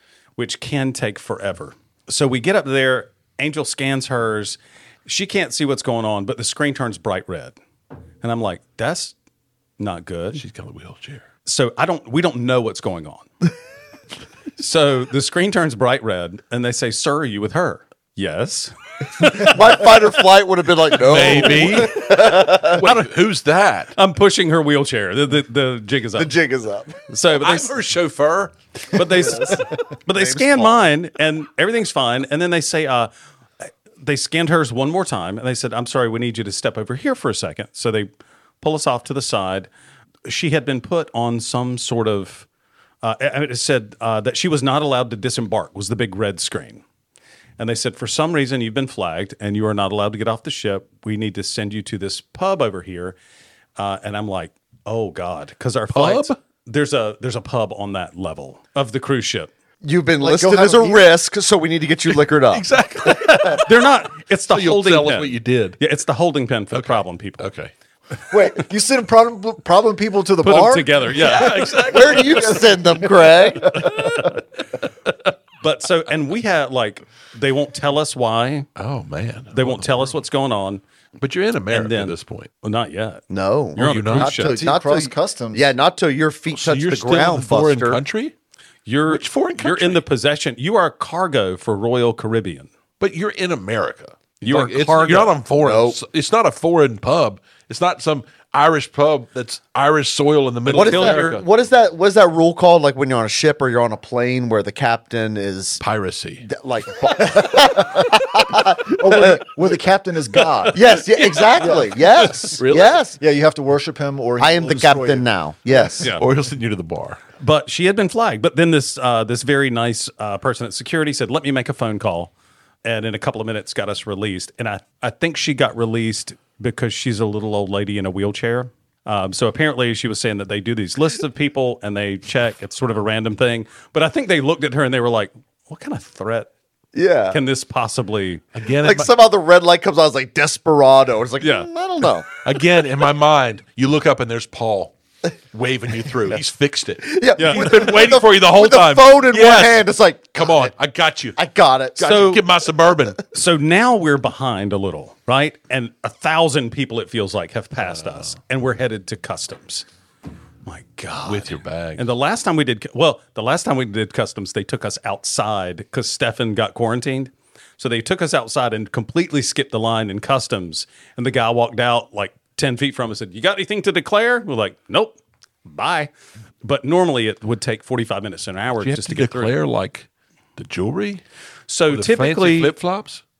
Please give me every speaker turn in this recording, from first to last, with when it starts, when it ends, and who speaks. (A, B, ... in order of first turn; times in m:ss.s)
0:00.4-0:07.6 A
0:08.2-0:09.1 A
0:09.8-0:10.4 A
0:10.4-0:11.2 B
0:11.4-0:13.3 A
0:14.6-0:20.1 A
0:19.3-0:22.9 C
0:21.0-0:23.9 B
0:21.7-0:22.2 A
0:22.8-0:23.1 A
0:23.9-0:26.3 A
0:26.2-0:27.0 C
0:27.1-0:27.8 A
0:27.3-0:28.5 B
0:28.9-0:33.1 A
0:29.2-0:30.9 C
0:33.6-0:38.1 A
0:38.6-0:39.7 A
0:40.2-0:42.5 A
0:43.0-0:46.8 A
0:47.6-0:53.2 A
0:53.8-0:59.5 A
0:55.9-0:56.3 B
0:59.8-1:03.4 C
1:00.2-1:01.0 D
1:02.5-1:03.7 B
1:03.1-1:07.5 A
1:04.5-1:05.8 B
1:06.7-1:07.7 B
1:08.3-1:11.0 D
1:10.4-1:12.3 A
1:11.1-1:13.0 B
1:11.8-1:14.0 C
1:13.6-1:14.3 D
1:13.8-1:14.3 A
1:15.6-1:18.7 A
1:18.8-1:20.2 B
1:19.5-1:20.8 A
1:21.2-1:22.5 B
1:21.7-1:24.6 A
1:23.3-1:28.0 C
1:23.8-1:24.4 B
1:24.2-1:25.6 D
1:26.5-1:28.3 B
1:28.8-1:32.7 A
1:29.1-1:30.0 B
1:33.0-1:41.4 B
1:34.4-1:35.3 A
1:35.6-1:36.0 C
1:40.7-1:45.8 C
1:40.7-1:41.4 A
1:45.8-1:46.4 B
1:46.4-1:49.4 C
1:47.2-1:50.9 D
1:50.7-1:53.2 C
1:51.6-1:52.0 D
1:52.6-1:53.0 B
1:53.2-1:55.3 D
1:54.4-1:56.1 C
1:55.8-1:57.2 B
1:57.4-2:02.3 A
2:02.8-2:16.5 A
2:16.9-2:17.4 C
2:17.3-2:18.4 A
2:18.5-2:19.1 B
2:18.8-2:22.3 C
2:21.4-2:21.7 A
2:22.4-2:24.9 B
2:25.5-2:31.4 B
2:27.0-2:30.7 C
2:27.4-2:27.8 A
2:31.4-2:32.2 C
2:32.0-2:33.2 B
2:32.0-2:32.4 A
2:33.3-2:39.8 A
2:37.8-2:38.3 B
2:40.6-2:56.1 A
2:41.2-2:42.1 B
2:56.6-2:59.5 A
2:58.8-3:01.2 B
3:01.7-3:02.7 A
3:01.9-3:03.2 B